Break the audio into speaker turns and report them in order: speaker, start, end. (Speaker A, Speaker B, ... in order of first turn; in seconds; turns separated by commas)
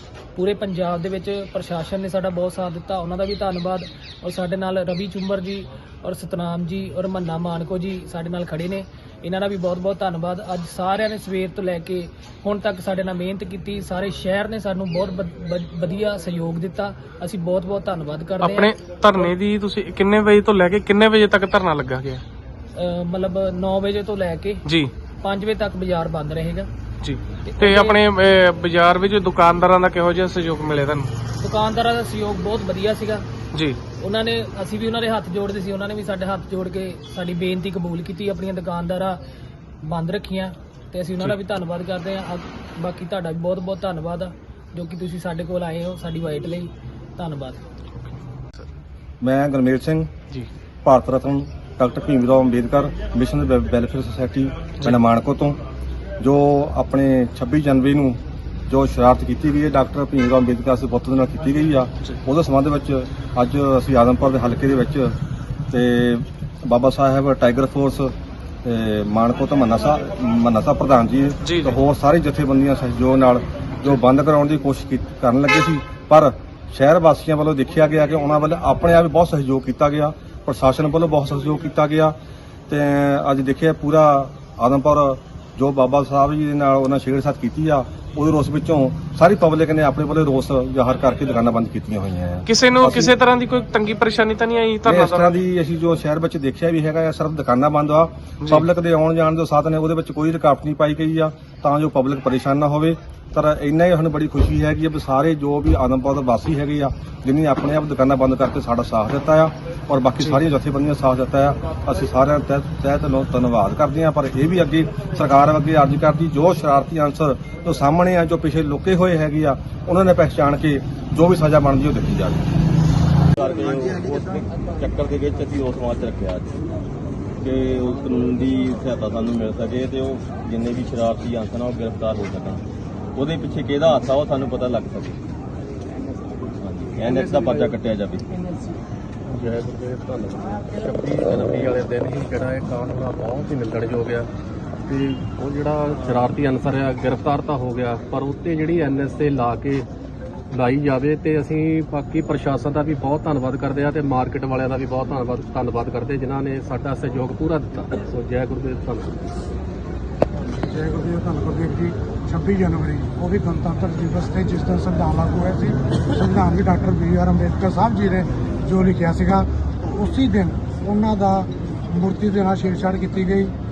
Speaker A: 0.4-18.7, Speaker B: 18.4-22.2, Speaker A: 22.8-24.6, Speaker B: 24.7-24.9, Speaker A: 25.2-26.7, Speaker B: 27.0-31.1, Speaker A: 27.5-28.0, Speaker A: 31.4-33.2, Speaker B: 33.5-33.8, Speaker A: 34.0-39.2, Speaker A: 39.8-47.6, Speaker C: 49.2-50.1, Speaker C: 50.9-55.6, Speaker C: 56.2-65.2, Speaker C: 65.7-68.1, Speaker C: 68.6-82.1, Speaker B: 71.4-71.8, Speaker C: 82.7-93.1, Speaker B: 92.5-95.3, Speaker C: 94.8-122.5, Speaker D: 123.4-126.6, Speaker D: 127.4-132.6, Speaker D: 133.2-135.2, Speaker D: 136.5-138.3, Speaker E: 139.3-144.3, Speaker E: 144.9-149.9, Speaker E: 150.5-159.1, Speaker F: 160.7-173.5